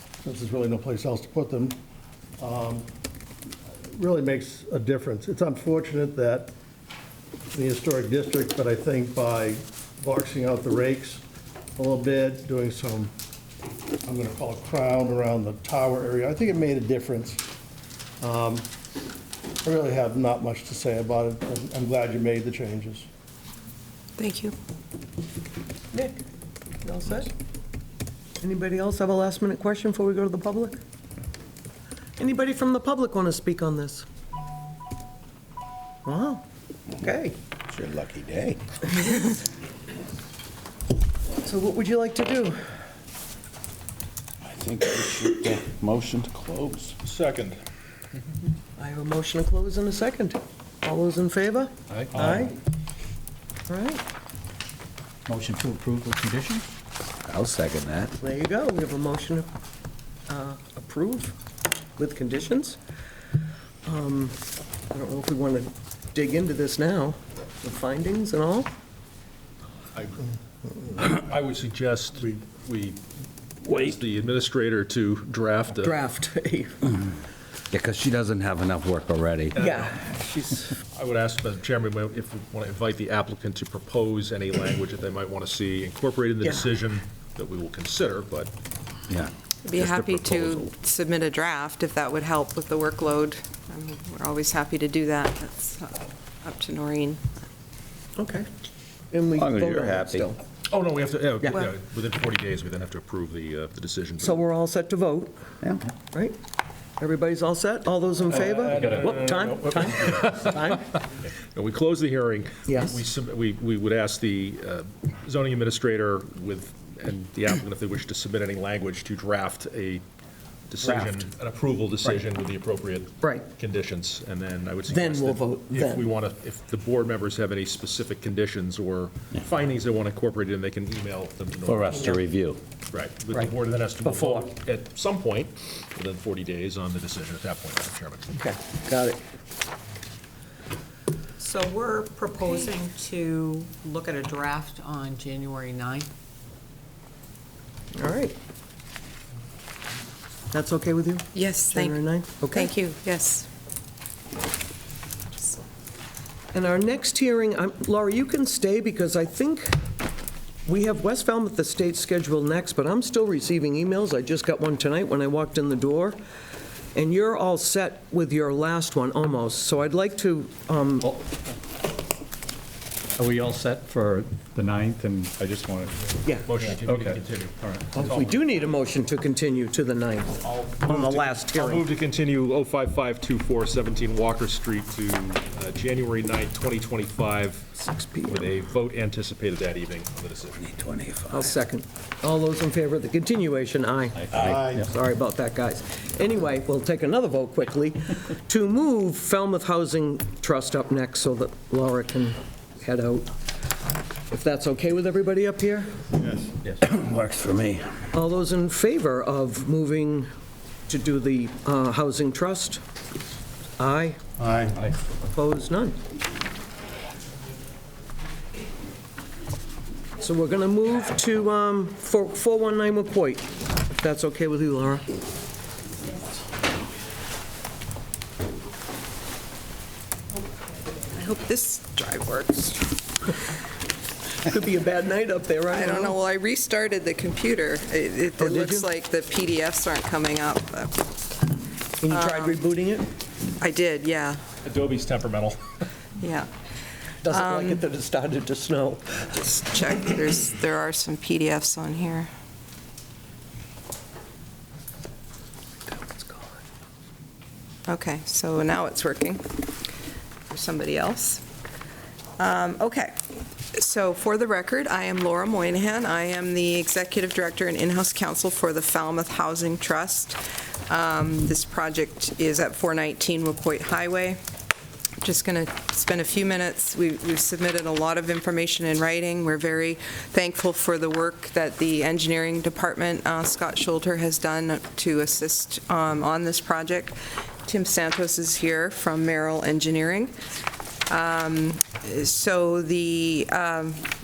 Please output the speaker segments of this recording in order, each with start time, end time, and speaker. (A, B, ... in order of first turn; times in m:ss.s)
0:00.2-0:01.8 A
0:02.4-0:02.9 A
0:03.9-0:06.5 A
0:07.5-0:11.2 A
0:11.8-0:13.1 A
0:14.0-0:17.4 A
0:18.2-0:18.7 A
0:19.6-0:23.1 A
0:24.2-0:24.5 B
0:26.8-0:27.3 C
0:28.4-0:30.8 C
0:32.2-0:34.0 C
0:36.0-0:36.4 C
0:37.0-0:37.4 C
0:37.7-0:38.6 D
0:41.4-0:42.6 C
0:44.4-0:47.0 D
0:47.0-0:47.6 E
0:48.8-0:52.5 C
0:53.7-0:54.0 C
0:55.3-0:56.5 D
0:57.2-0:58.1 D
0:58.1-0:59.5 C
1:00.3-1:01.4 C
1:02.0-1:02.8 C
1:03.8-1:04.4 C
1:04.9-1:08.7 C
1:10.0-1:10.2 E
1:11.0-1:13.0 E
1:13.6-1:16.0 E
1:15.7-1:16.8 C
1:17.7-1:19.6 D
1:19.5-1:19.9 E
1:19.6-1:20.7 C
1:20.9-1:28.5 E
1:29.1-1:30.7 D
1:29.6-1:37.2 B
1:38.2-1:38.5 C
1:39.1-1:40.4 C
1:39.4-1:40.3 D
1:40.7-1:44.4 E
1:44.2-1:45.4 C
1:45.6-1:45.9 D
1:47.0-1:50.9 C
1:48.3-1:50.5 E
1:51.4-2:00.0 E
1:52.7-1:53.0 C
2:00.7-2:12.2 E
2:00.8-2:01.2 C
2:04.9-2:06.1 C
2:11.6-2:12.6 D
2:12.9-2:18.4 E
2:14.0-2:14.5 C
2:18.3-2:19.2 C
2:21.4-2:26.1 F
2:27.9-2:28.4 C
2:30.5-2:32.8 C
2:31.3-2:32.0 B
2:32.5-2:33.5 B
2:36.5-2:39.8 C
2:40.6-2:46.2 C
2:46.9-2:51.1 C
2:51.0-2:51.3 G
2:53.2-2:56.1 G
2:56.2-2:56.5 C
2:56.4-2:58.8 E
2:56.7-2:57.8 G
2:57.9-3:01.8 C
3:00.4-3:07.7 E
3:07.8-3:08.5 C
3:08.3-3:10.6 E
3:10.6-3:11.5 D
3:11.3-3:23.4 C
3:14.3-3:14.8 A
3:24.3-3:26.0 C
3:26.2-3:26.5 A
3:26.8-3:27.9 D
3:28.1-3:30.3 C
3:30.9-3:32.8 C
3:33.8-3:34.2 C
3:34.4-3:34.8 A
3:35.3-3:36.0 C
3:40.2-3:45.0 C
3:51.1-3:53.0 B
3:54.4-3:56.2 C
3:55.7-4:01.1 B
3:58.4-3:58.8 C
4:02.0-4:03.1 C
4:02.1-4:02.6 B
4:03.6-4:04.4 B
4:04.6-4:05.7 E
4:06.2-4:06.5 B
4:07.2-4:09.3 C
4:07.3-4:07.8 B
4:09.4-4:12.3 B
4:15.8-4:16.6 C
4:17.9-4:19.6 B
4:20.5-4:21.4 B
4:22.4-4:23.1 B
4:23.7-4:34.4 B
4:35.2-4:50.3 B
4:51.1-4:54.0 B